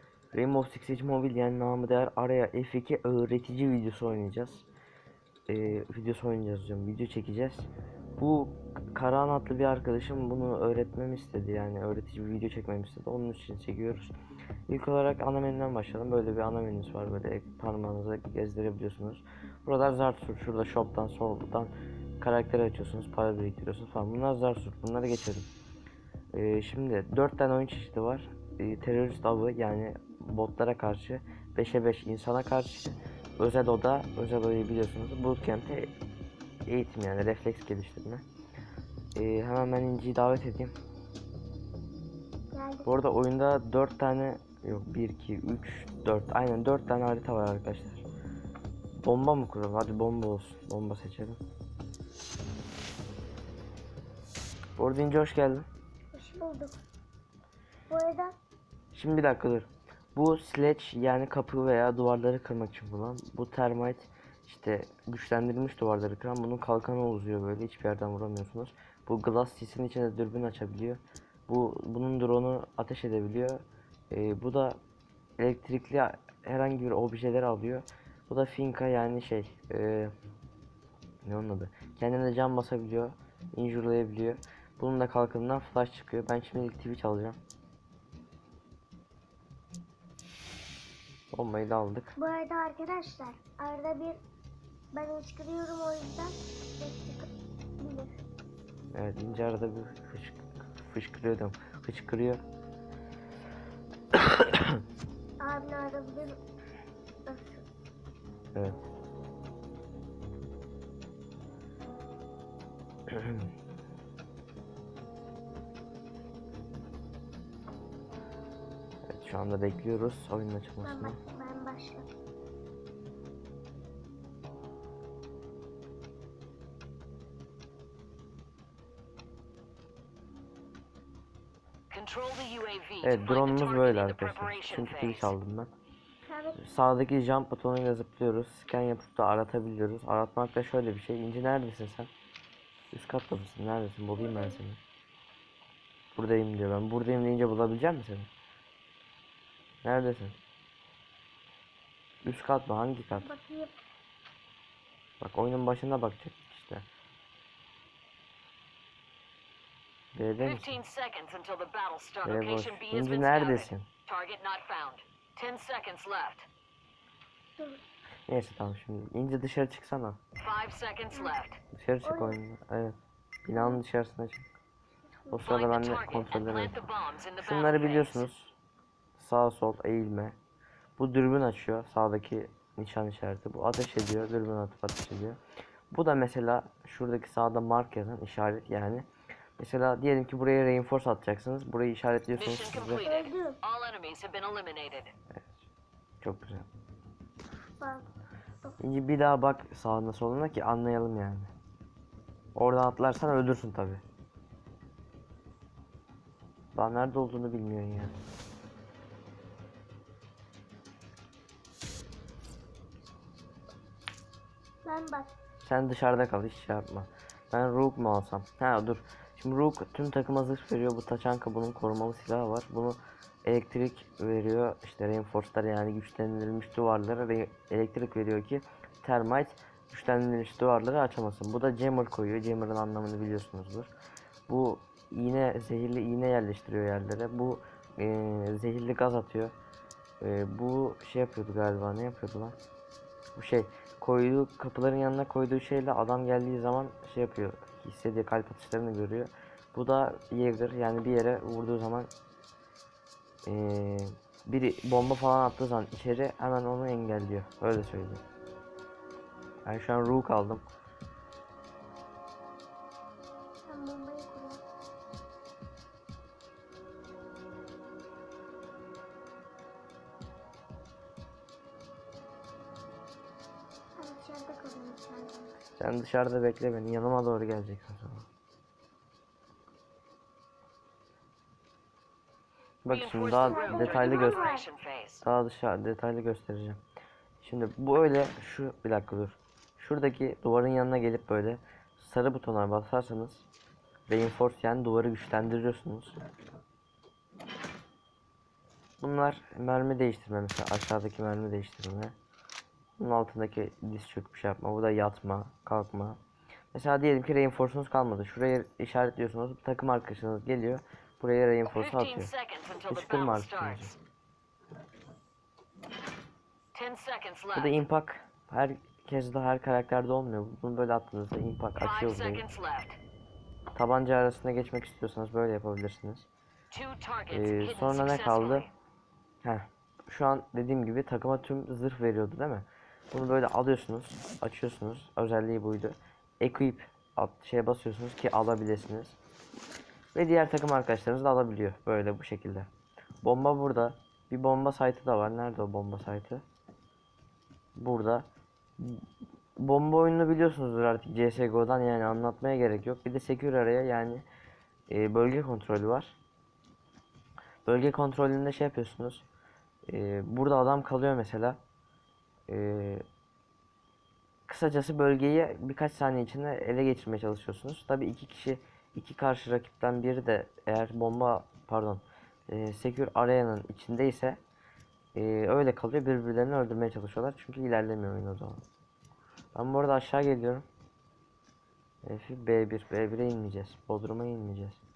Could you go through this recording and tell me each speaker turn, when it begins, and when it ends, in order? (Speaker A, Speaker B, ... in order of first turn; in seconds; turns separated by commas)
Speaker A: 0.3-4.7, Speaker A: 5.5-14.1, Speaker A: 14.7-25.5, Speaker A: 26.3-35.9, Speaker A: 36.7-38.2, Speaker A: 39.1-40.8, Speaker B: 42.5-42.9, Speaker A: 42.9-48.0, Speaker A: 49.0-51.4, Speaker A: 54.8-55.7, Speaker B: 56.1-56.9, Speaker B: 57.9-58.4, Speaker A: 58.9-74.8, Speaker A: 75.4-80.1, Speaker A: 81.2-87.4, Speaker A: 91.3-92.1, Speaker B: 92.2-94.2, Speaker B: 94.9-98.2, Speaker A: 98.9-102.4, Speaker A: 104.1-104.8, Speaker B: 105.4-106.4, Speaker B: 107.3-107.7, Speaker A: 108.5-108.8, Speaker A: 113.1-113.5, Speaker A: 119.1-121.2, Speaker B: 120.8-122.1, Speaker C: 131.9-135.4, Speaker A: 133.0-135.7, Speaker B: 136.3-136.6, Speaker A: 136.6-142.1, Speaker A: 142.9-144.8, Speaker B: 144.2-144.6, Speaker A: 146.1-148.3, Speaker A: 149.8-150.4, Speaker A: 152.2-153.3, Speaker B: 153.2-153.8, Speaker A: 155.2-156.9, Speaker A: 160.1-160.8, Speaker C: 160.4-166.5, Speaker A: 162.2-163.9, Speaker A: 168.3-170.2, Speaker C: 170.4-171.6, Speaker A: 171.7-174.5, Speaker B: 172.0-172.4, Speaker B: 173.6-173.8, Speaker B: 175.1-175.4, Speaker A: 175.3-176.8, Speaker C: 175.4-178.3, Speaker A: 177.4-178.5, Speaker A: 179.2-180.4, Speaker A: 181.0-185.4, Speaker A: 185.9-189.1, Speaker A: 189.6-193.1, Speaker C: 192.3-195.1, Speaker B: 193.0-193.6, Speaker A: 196.2-196.7, Speaker B: 197.8-198.1, Speaker A: 198.8-201.5, Speaker A: 202.6-204.0, Speaker A: 206.8-208.1, Speaker B: 214.8-215.4, Speaker A: 215.6-233.9, Speaker A: 234.5-239.5, Speaker A: 240.2-242.6, Speaker A: 243.4-252.1, Speaker A: 253.5-258.2, Speaker A: 259.6-260.6, Speaker B: 263.6-264.6, Speaker B: 274.0-275.6, Speaker A: 275.8-278.3, Speaker A: 282.8-284.4, Speaker C: 282.9-285.2, Speaker B: 283.4-284.7, Speaker A: 285.2-286.8, Speaker A: 287.4-293.5, Speaker A: 294.1-296.2, Speaker A: 299.0-302.1, Speaker A: 303.0-306.2, Speaker A: 306.7-312.3, Speaker C: 311.6-313.9, Speaker A: 312.9-313.9, Speaker C: 316.7-317.8, Speaker A: 317.6-322.4, Speaker C: 321.8-323.0, Speaker A: 323.8-326.3, Speaker C: 326.7-328.7, Speaker A: 327.3-328.7, Speaker A: 329.4-339.2, Speaker A: 340.1-342.7, Speaker A: 343.2-346.4, Speaker A: 347.8-348.3, Speaker A: 348.8-349.1, Speaker A: 349.6-354.2, Speaker A: 354.9-356.2, Speaker A: 357.7-359.2, Speaker A: 359.9-361.6, Speaker A: 362.5-363.1, Speaker A: 364.5-374.4, Speaker A: 375.1-378.6, Speaker A: 379.6-380.6, Speaker A: 382.0-384.8